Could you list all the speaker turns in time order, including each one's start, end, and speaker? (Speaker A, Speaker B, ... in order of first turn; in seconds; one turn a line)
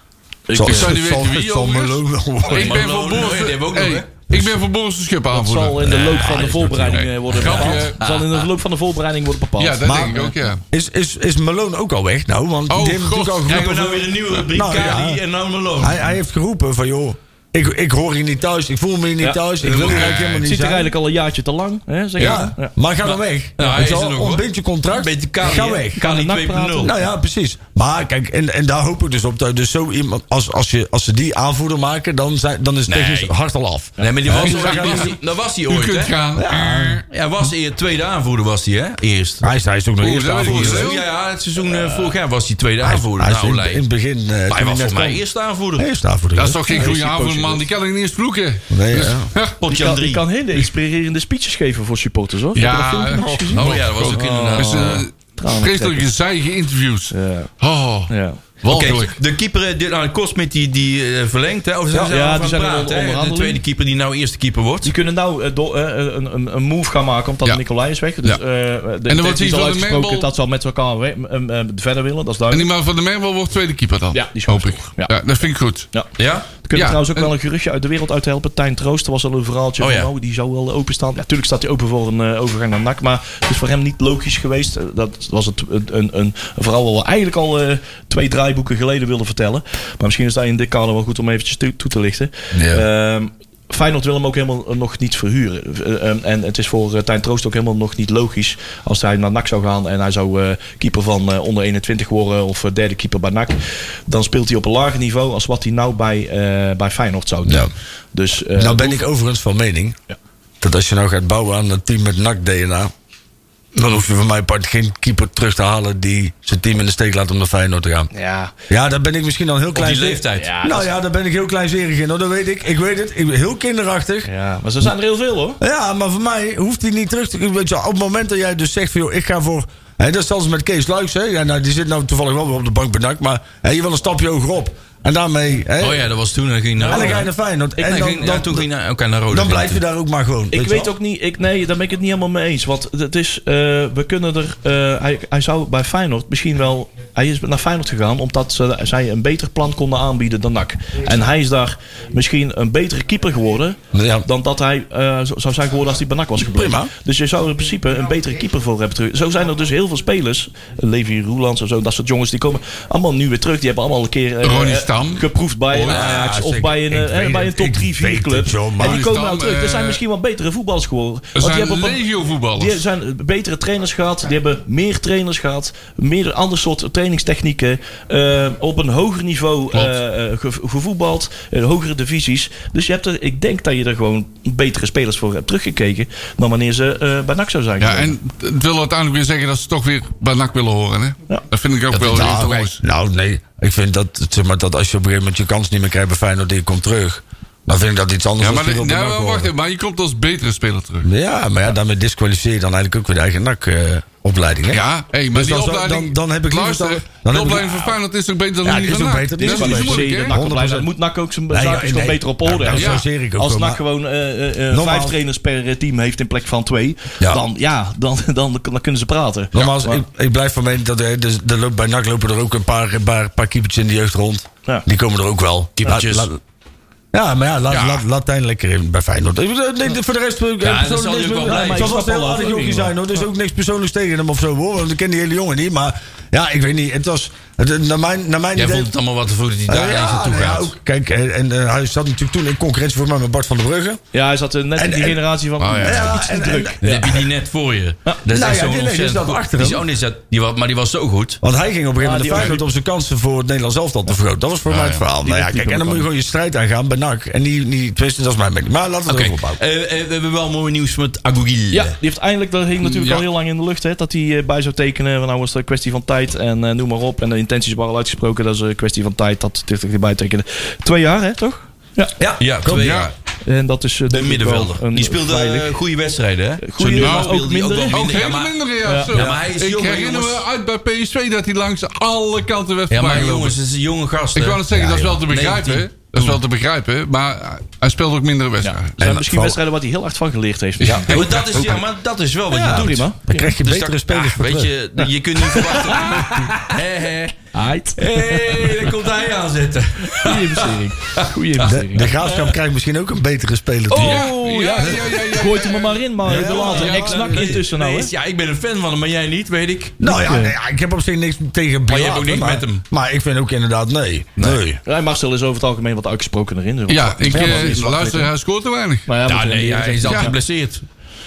Speaker A: 0.5-1.0
Speaker B: 0.5-2.9
Speaker C: 0.6-6.0
Speaker D: 2.5-4.1
Speaker A: 5.3-10.3
Speaker D: 5.9-8.5
Speaker B: 5.9-7.1
Speaker C: 6.9-8.0
Speaker C: 9.6-10.6
Speaker B: 9.8-15.2
Speaker C: 12.7-13.6
Speaker D: 13.4-16.2
Speaker B: 15.8-20.9
Speaker D: 19.6-20.2
Speaker C: 19.7-20.5
Speaker A: 20.4-22.7
Speaker C: 22.2-22.4
Speaker B: 22.2-26.0
Speaker D: 23.1-26.9
Speaker A: 25.9-27.1
Speaker B: 26.8-35.2
Speaker D: 32.9-33.3
Speaker A: 34.0-35.1
Speaker D: 34.0-36.2
Speaker C: 34.3-35.1
Speaker C: 35.7-37.0
Speaker B: 36.4-37.0
Speaker D: 37.1-39.5
Speaker B: 39.4-41.0
Speaker C: 40.0-41.0
Speaker D: 40.4-43.8
Speaker A: 41.6-42.2
Speaker B: 42.8-45.2
Speaker D: 44.5-45.9
Speaker B: 45.8-46.9
Speaker C: 46.4-49.6
Speaker A: 46.7-47.6
Speaker B: 48.7-49.3
Speaker D: 49.6-50.2
Speaker A: 49.7-56.0
Speaker C: 52.5-59.2
Speaker D: 53.5-55.1
Speaker A: 57.1-57.5
Speaker A: 58.1-58.4
Speaker D: 58.7-64.9
Speaker A: 62.0-63.6
Speaker A: 64.8-72.7
Speaker C: 69.1-70.3
Speaker C: 72.5-75.9
Speaker A: 74.1-75.1
Speaker A: 75.9-109.0
Speaker D: 76.2-76.5
Speaker C: 76.7-77.3
Speaker D: 79.8-80.1
Speaker D: 92.5-92.8
Speaker B: 107.5-107.7
Speaker B: 108.6-110.0
Speaker B: 110.6-112.9
Speaker B: 113.7-118.1
Speaker A: 118.1-118.5
Speaker B: 118.7-124.3
Speaker D: 119.7-120.5
Speaker A: 120.3-120.9
Speaker A: 124.3-125.6
Speaker B: 125.6-136.1
Speaker D: 135.8-139.8
Speaker A: 136.8-137.2
Speaker B: 136.8-138.7
Speaker B: 139.3-140.9
Speaker A: 140.5-188.1
Speaker B: 153.9-154.3
Speaker B: 156.4-156.9
Speaker C: 164.4-166.2
Speaker B: 165.9-169.0
Speaker C: 168.8-170.0
Speaker C: 171.4-172.8
Speaker C: 187.8-192.8
Speaker D: 191.9-192.7
Speaker B: 192.1-199.5
Speaker C: 198.4-201.1
Speaker B: 201.0-208.0
Speaker C: 204.7-210.3
Speaker B: 208.6-210.9
Speaker A: 209.4-220.0
Speaker B: 211.5-213.8
Speaker C: 212.7-213.0
Speaker B: 214.7-215.2
Speaker B: 219.5-226.4
Speaker D: 225.8-226.3
Speaker B: 227.1-238.9
Speaker D: 227.7-228.0
Speaker D: 230.6-232.0
Speaker A: 231.4-233.0
Speaker D: 238.6-240.7
Speaker B: 239.7-244.0
Speaker A: 244.1-247.3
Speaker B: 244.8-245.2
Speaker D: 245.7-246.2
Speaker B: 245.8-246.8
Speaker D: 246.8-251.4
Speaker B: 248.3-249.9
Speaker B: 251.4-259.6
Speaker A: 252.0-252.7
Speaker D: 254.7-255.0
Speaker A: 255.2-256.1
Speaker D: 259.1-261.9
Speaker A: 261.7-272.2
Speaker D: 262.8-263.3
Speaker B: 272.2-273.0
Speaker D: 272.2-273.1
Speaker C: 272.7-273.1
Speaker A: 273.4-275.8
Speaker D: 274.1-280.4
Speaker A: 276.6-278.1
Speaker C: 277.0-277.4
Speaker C: 277.9-283.6
Speaker A: 278.8-279.3
Speaker D: 282.9-286.4
Speaker C: 284.3-289.0
Speaker A: 288.6-291.2
Speaker B: 289.0-289.6
Speaker C: 290.8-291.6
Speaker B: 290.8-291.8
Speaker D: 291.1-297.4
Speaker B: 292.5-294.7
Speaker A: 292.6-293.5
Speaker A: 295.5-296.8
Speaker A: 297.5-299.0
Speaker D: 298.0-301.8
Speaker A: 300.1-302.2
Speaker B: 301.6-305.2
Speaker A: 303.9-308.1
Speaker C: 303.9-306.0
Speaker B: 306.2-307.6
Speaker D: 306.3-310.0
Speaker B: 310.0-314.8
Speaker A: 310.1-310.6
Speaker D: 311.9-312.8
Speaker A: 314.9-318.3
Speaker C: 316.9-319.1
Speaker B: 317.3-317.8
Speaker A: 319.1-320.4
Speaker D: 319.2-320.8
Speaker C: 320.1-320.3